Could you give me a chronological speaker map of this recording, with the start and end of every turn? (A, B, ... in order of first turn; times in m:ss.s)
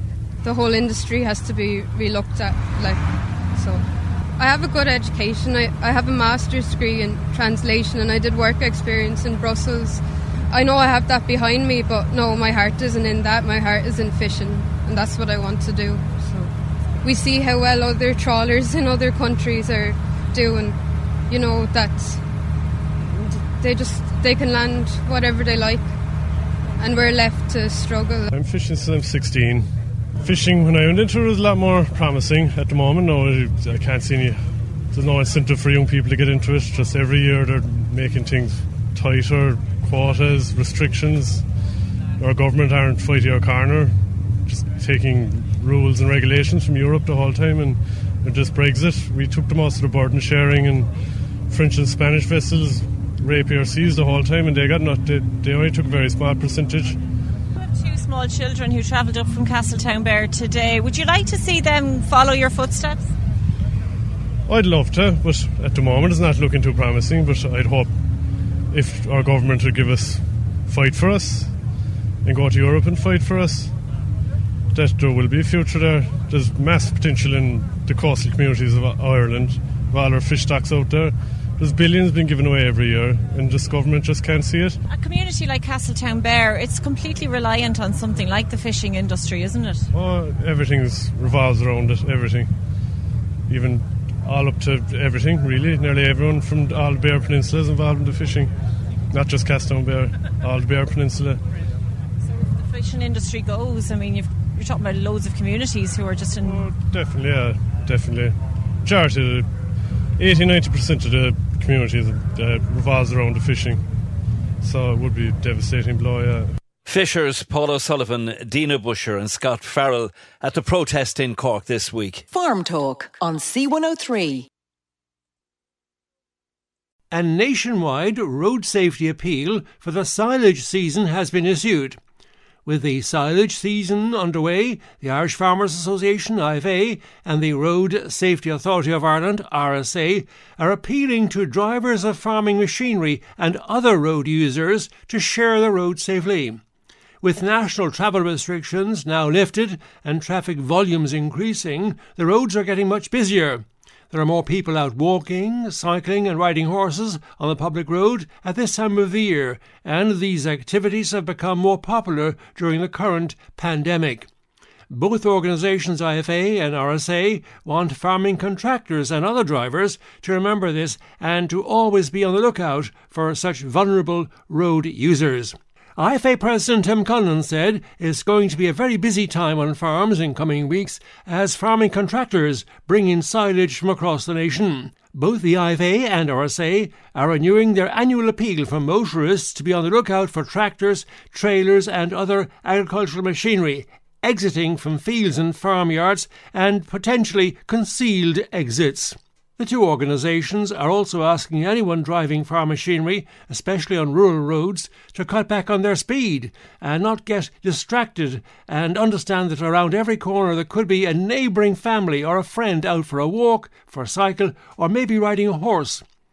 0:00.4-0:22.2 A
0:23.1-0:25.9 A
0:26.8-0:28.3 A
0:28.3-0:29.7 B
0:30.2-0:41.4 B
0:42.2-0:50.9 B
0:51.5-0:57.0 B
0:57.6-1:03.0 C
1:04.5-1:07.9 B
1:08.7-1:11.5 B
1:12.2-1:13.7 B
1:14.7-1:24.8 B
1:24.9-1:29.9 C
1:29.9-1:32.5 B
1:33.5-1:38.5 B
1:39.1-1:41.4 B
1:42.4-1:46.7 C
1:46.4-1:49.5 B
1:50.2-1:53.8 B
1:54.6-1:56.6 B
1:56.8-2:02.2 D
2:02.3-2:04.5 E
2:07.1-2:12.0 F
2:12.6-2:26.6 F
2:27.2-2:44.3 F
2:44.9-3:36.0 F